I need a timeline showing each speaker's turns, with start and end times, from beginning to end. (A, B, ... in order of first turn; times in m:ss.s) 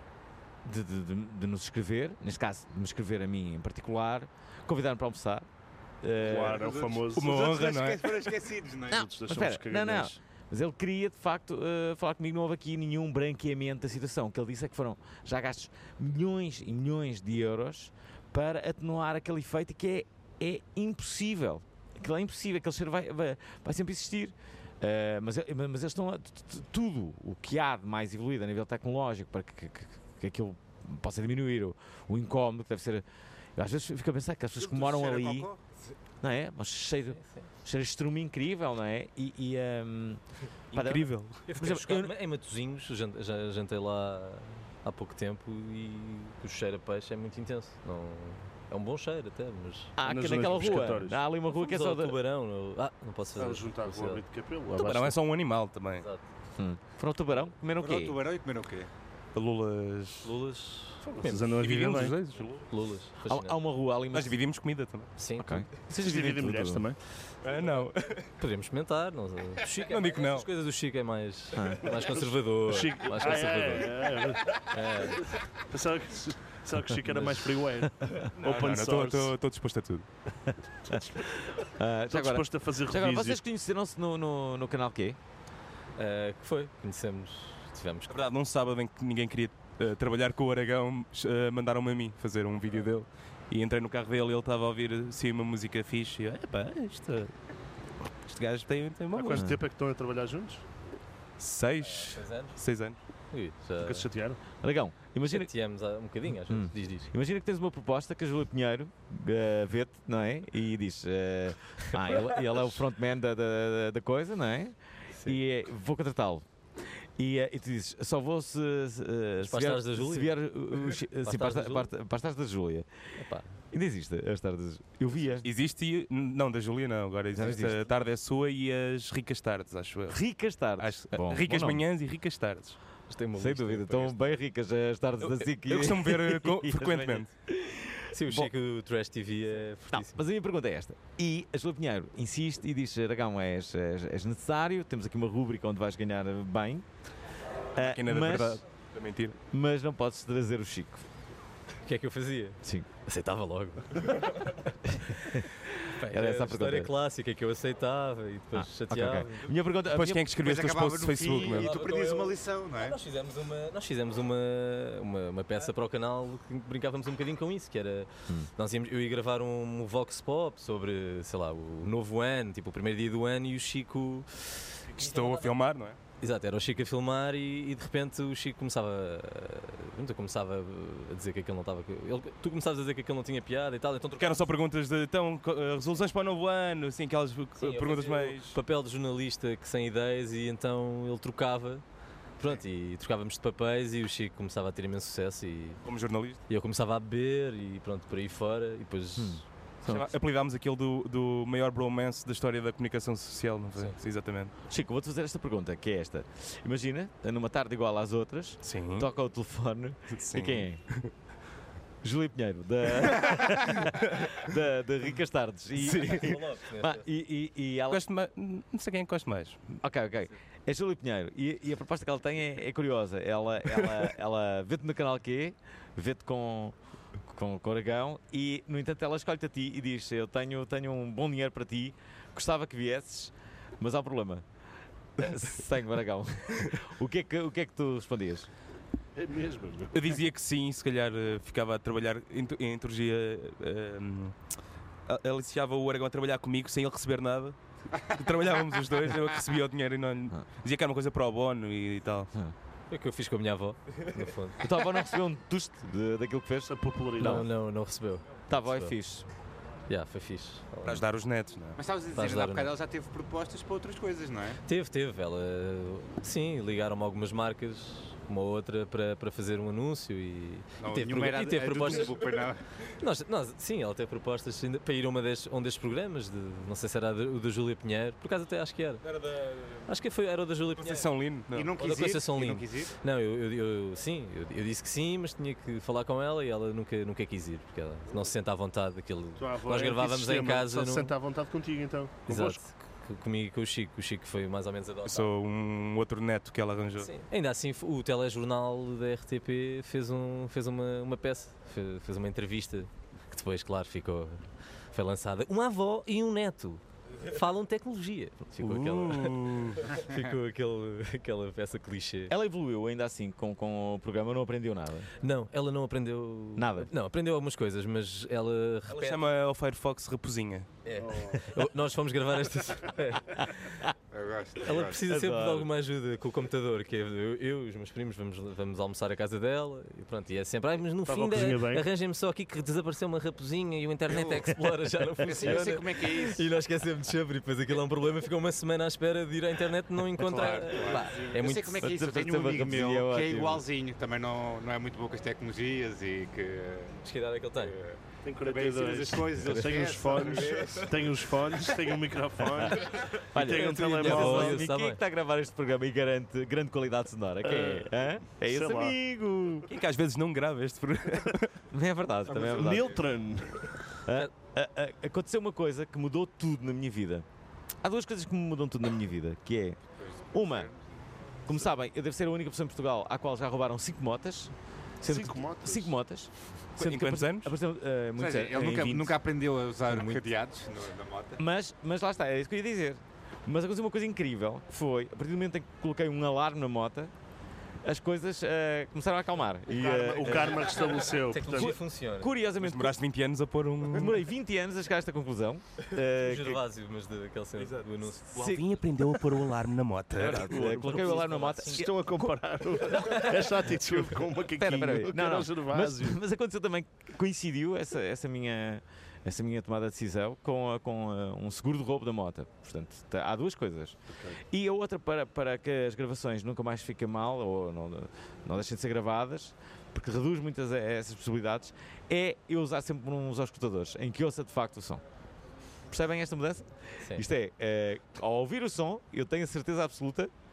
0:00.6-0:05.4 A
0:06.0-0:06.7 A
0:06.2-0:09.1 B
0:06.2-0:07.3 C
0:07.1-0:08.2 D
0:08.9-0:33.0 A
0:08.9-0:10.2 C
0:33.6-0:35.5 A
0:34.6-0:35.6 B
0:36.2-0:40.2 A
0:37.1-0:37.5 E
0:40.7-0:41.4 D
0:40.7-0:42.1 A
0:41.5-0:49.9 E
0:50.0-0:52.2 A
0:50.0-0:51.2 C
0:51.5-0:54.2 E
0:53.4-0:55.2 C
0:54.7-0:56.0 D
0:56.6-0:58.2 A
0:57.8-0:58.9 B
0:59.3-1:00.3 D
1:00.2-1:01.5 E
1:01.1-1:02.2 C
1:01.5-1:02.6 D
1:02.7-1:03.6 E
1:03.2-1:04.4 A
1:04.1-1:05.1 D
1:05.2-1:05.6 E
1:05.4-1:06.8 A
1:05.9-1:07.0 C
1:07.4-1:08.3 D
1:08.4-1:15.3 E
1:09.9-1:10.5 D
1:11.5-1:11.8 A
1:11.9-1:14.6 C
1:15.7-1:19.3 C
1:17.1-1:17.4 E
1:18.4-1:20.0 D
1:20.9-1:21.4 C
1:21.6-1:25.2 A
1:22.1-1:23.4 C
1:26.0-1:28.2 E
1:28.1-1:37.3 D
1:38.2-1:39.4 D
1:39.1-1:40.6 C
1:39.3-1:39.6 A
1:41.4-1:43.0 D
1:41.8-1:42.6 E
1:43.3-1:44.1 E
1:43.8-1:44.4 C
1:44.6-1:45.5 A
1:45.3-1:47.1 E
1:46.5-1:56.4 A
1:51.8-1:52.3 E
1:57.2-2:02.9 A
1:59.4-2:00.4 E
2:01.2-2:01.9 E
2:03.2-2:03.5 E
2:03.7-2:05.4 A
2:05.4-2:12.8 D
2:07.3-2:07.8 A
2:10.1-2:11.8 A
2:13.1-2:14.4 E
2:13.4-2:18.5 A
2:15.2-2:17.3 D
2:18.1-2:20.2 E
2:19.9-2:26.8 A
2:27.7-2:28.6 A
2:27.8-2:29.4 D
2:29.5-2:31.0 A
2:31.8-2:39.5 E
2:35.2-2:35.4 A
2:36.0-2:36.9 A
2:38.5-2:40.3 A
2:39.9-2:41.7 D
2:40.4-2:43.0 B
2:41.5-2:55.5 E
2:55.0-2:56.0 D
2:56.2-3:04.5 E
3:04.2-3:08.6 D
3:07.6-3:11.8 E
3:12.4-3:15.8 E
3:15.8-3:16.4 D
3:16.5-3:19.4 E
3:19.2-3:20.1 A
3:19.8-3:24.5 D
3:24.7-3:30.8 A
3:28.6-3:29.1 D
3:30.1-3:31.1 D
3:32.0-3:38.0 A
3:35.8-3:36.4 D
3:36.0-3:37.0 E
3:37.9-3:39.8 D
3:39.8-3:46.7 A
3:47.2-3:54.4 A
3:55.2-3:58.5 A
3:59.1-3:59.9 C
3:59.9-4:04.4 D
4:05.1-4:12.3 D
4:12.9-4:14.6 E
4:14.6-4:17.4 A
4:16.6-4:17.4 C
4:17.2-4:19.0 E
4:18.5-4:19.2 A
4:19.9-4:21.0 E
4:20.8-4:21.8 D
4:21.8-4:24.6 B
4:22.1-4:22.7 E
4:24.6-4:32.2 E
4:30.8-4:32.6 B
4:33.0-4:39.0 E
4:39.0-4:39.8 D
4:39.9-4:41.1 E
4:40.8-4:41.8 D
4:41.5-4:42.9 B
4:41.8-4:51.1 E
4:49.4-4:52.6 C
4:52.3-4:55.3 E
4:55.0-4:57.1 D
4:57.0-5:12.3 E
5:08.6-5:09.8 D
5:12.3-5:15.1 A
5:15.2-5:19.3 E
5:16.6-5:16.9 A
5:18.9-5:20.7 D
5:20.8-5:23.8 E
5:21.0-5:21.4 C
5:24.1-5:25.0 B
5:24.6-5:41.8 E
5:25.1-5:25.7 A
5:31.0-5:31.8 C
5:34.1-5:34.5 B
5:35.2-5:36.4 B
5:40.2-5:47.0 B
5:40.8-5:41.2 A
5:41.8-5:43.6 A
5:47.0-5:47.8 E
5:47.6-5:51.2 B
5:48.2-5:54.6 C
5:49.4-5:49.8 A
5:53.3-5:59.7 A
5:53.5-5:55.0 E
5:54.0-5:54.5 D
5:57.4-5:57.9 C
5:58.4-5:59.0 C
5:59.7-6:01.6 D
6:01.7-6:03.0 A
6:02.3-6:03.7 C
6:02.3-6:03.0 B
6:04.0-6:07.2 A
6:07.8-6:09.8 A
6:10.0-6:10.8 B
6:10.3-6:10.7 A
6:11.5-6:19.2 A
6:15.0-6:15.9 C
6:16.8-6:17.5 D
6:18.2-6:21.4 B
6:21.4-6:27.1 A
6:27.8-6:30.8 A
6:29.7-6:31.8 C
6:31.0-6:32.3 E
6:31.5-6:33.0 A
6:32.6-6:34.2 D
6:33.8-6:36.6 A
6:36.0-6:38.3 E
6:37.6-6:40.6 D
6:38.3-6:38.8 A
6:40.2-6:42.2 A
6:40.3-6:46.2 C
6:40.5-6:41.9 E
6:42.9-6:43.4 E
6:43.0-7:05.0 A
6:54.1-6:54.4 C
7:05.9-7:10.3 A
7:07.0-7:07.3 E